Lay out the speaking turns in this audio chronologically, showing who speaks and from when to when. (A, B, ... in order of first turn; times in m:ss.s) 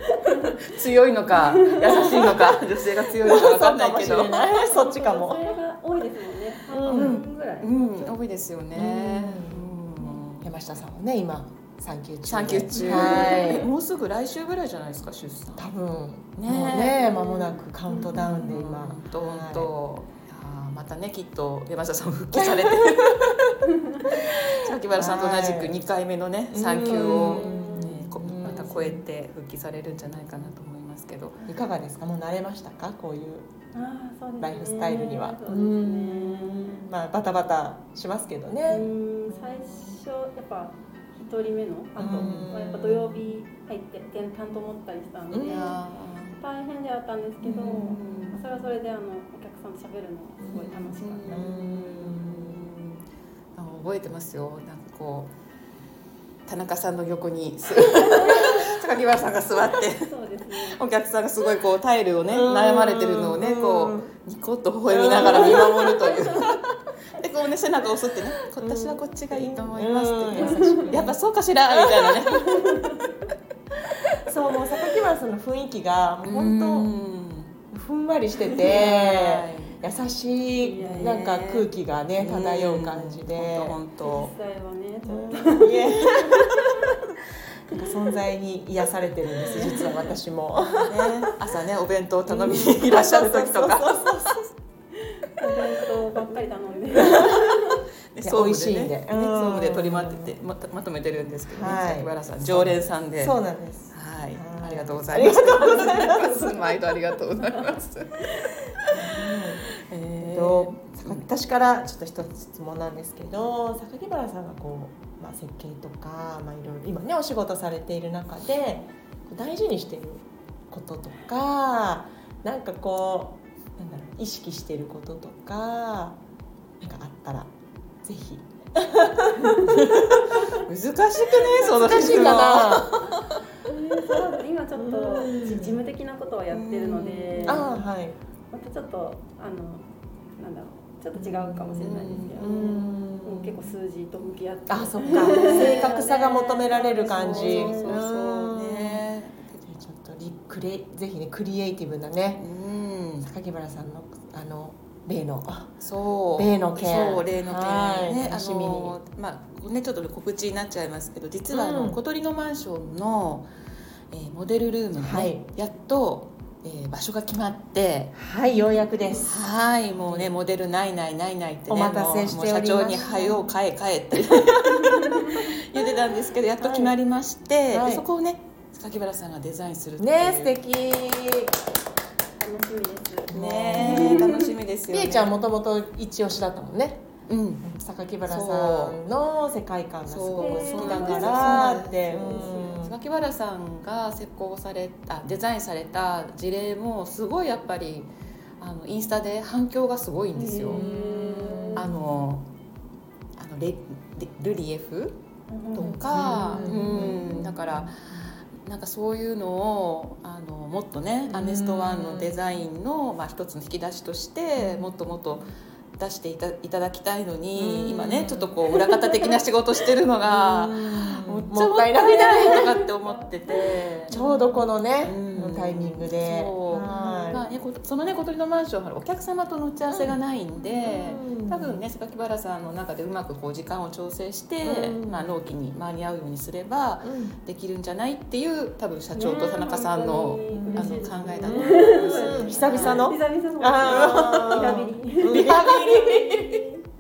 0:00.3-0:00.6 A
0:00.6-0:04.4 B
0:01.3-0:02.4 A
0:01.9-0:02.4 C
0:03.1-0:05.6 C
0:04.6-0:08.2 A
0:06.7-0:07.2 C
0:06.9-0:10.5 B
0:08.7-0:09.7 C
0:10.4-0:13.7 C
0:12.2-0:15.7 B
0:12.8-0:13.6 A
0:15.6-0:19.7 C
0:16.4-0:17.2 B
0:17.2-0:18.4 A
0:18.1-0:31.5 B
0:22.4-0:23.0 C
0:23.7-0:24.0 A
0:24.9-0:25.8 C
0:26.5-0:29.0 C
0:26.8-0:28.6 A
0:31.5-0:33.5 C
0:33.7-0:36.8 A
0:34.4-0:40.0 C
0:38.7-0:45.8 A
0:42.0-0:43.3 C
0:42.0-0:42.5 B
0:45.3-0:45.8 C
0:45.4-0:46.4 B
0:46.4-0:51.5 A
0:47.4-0:48.5 B
0:50.4-0:52.6 C
0:50.9-0:53.0 B
0:53.6-0:55.3 B
0:56.5-1:12.7 B
0:57.9-0:58.7 A
1:00.0-1:00.8 A
1:02.3-1:04.1 C
1:04.9-1:06.6 C
1:05.2-1:06.5 A
1:08.6-1:11.2 C
1:10.3-1:11.0 A
1:11.8-1:12.2 C
1:12.3-1:13.1 A
1:14.2-1:16.9 C
1:16.2-1:17.6 B
1:17.7-1:23.8 C
1:18.6-1:19.8 B
1:20.6-1:21.2 A
1:20.8-1:24.3 B
1:24.0-1:26.7 A
1:25.1-1:27.0 C
1:27.7-1:31.4 C
1:29.4-1:30.1 A
1:29.4-1:30.1 B
1:30.8-1:34.0 B
1:32.3-1:34.5 C
1:35.3-1:37.8 A
1:36.9-1:37.5 C
1:37.1-1:37.5 B
1:38.1-1:43.4 B
1:38.2-1:40.3 C
1:41.5-1:46.4 C
1:43.9-1:51.2 B
1:45.5-1:48.5 A
1:48.9-2:06.2 C
2:06.8-2:07.5 C
2:08.0-2:10.6 C
2:10.4-2:13.4 B
2:11.5-2:12.9 C
2:13.7-2:17.9 A
2:14.8-2:15.8 C
2:16.5-2:17.7 B
2:17.4-2:18.2 C
2:18.5-2:28.0 A
2:21.1-2:23.7 C
2:21.8-2:22.4 B
2:24.7-2:29.0 C
2:25.2-2:26.0 B
2:27.1-2:29.6 B
2:29.7-2:32.5 C
2:32.4-2:33.3 B
2:33.2-2:35.8 C
2:35.8-2:43.5 B
2:36.3-2:39.0 C
2:41.5-2:42.0 C
2:44.1-2:48.2 B
2:45.0-2:45.5 C
2:48.2-2:49.4 C
2:49.2-3:00.5 B
2:49.9-2:50.3 C
2:51.7-2:53.5 C
2:54.8-2:55.4 A
2:56.6-2:57.0 C
2:57.7-2:58.0 C
3:00.0-3:01.6 C
3:02.4-3:04.5 A
3:03.3-3:04.3 C
3:03.3-3:05.4 B
3:04.9-3:07.1 C
3:07.3-3:07.6 B
3:07.6-3:13.0 C
3:08.3-3:09.0 B
3:10.1-3:20.8 B
3:10.4-3:12.9 A
3:20.4-3:21.9 A
3:20.7-3:22.0 C
3:21.7-3:22.5 B
3:23.4-3:28.0 B
3:25.5-3:27.4 A
3:26.0-3:28.2 C
3:28.6-3:44.1 B
3:31.3-3:32.4 C
3:34.6-3:35.2 C
3:37.6-3:39.4 C
3:40.2-3:42.8 C
3:43.0-3:44.7 A
3:44.1-3:47.5 C
3:45.0-4:03.1 B
3:46.8-3:47.5 A
3:49.9-3:50.2 C
3:50.8-3:51.8 C
3:54.6-3:55.3 C
3:57.0-3:57.4 C
3:59.1-4:06.8 A
4:00.5-4:06.6 C
4:03.8-4:04.7 B
4:05.3-4:06.0 B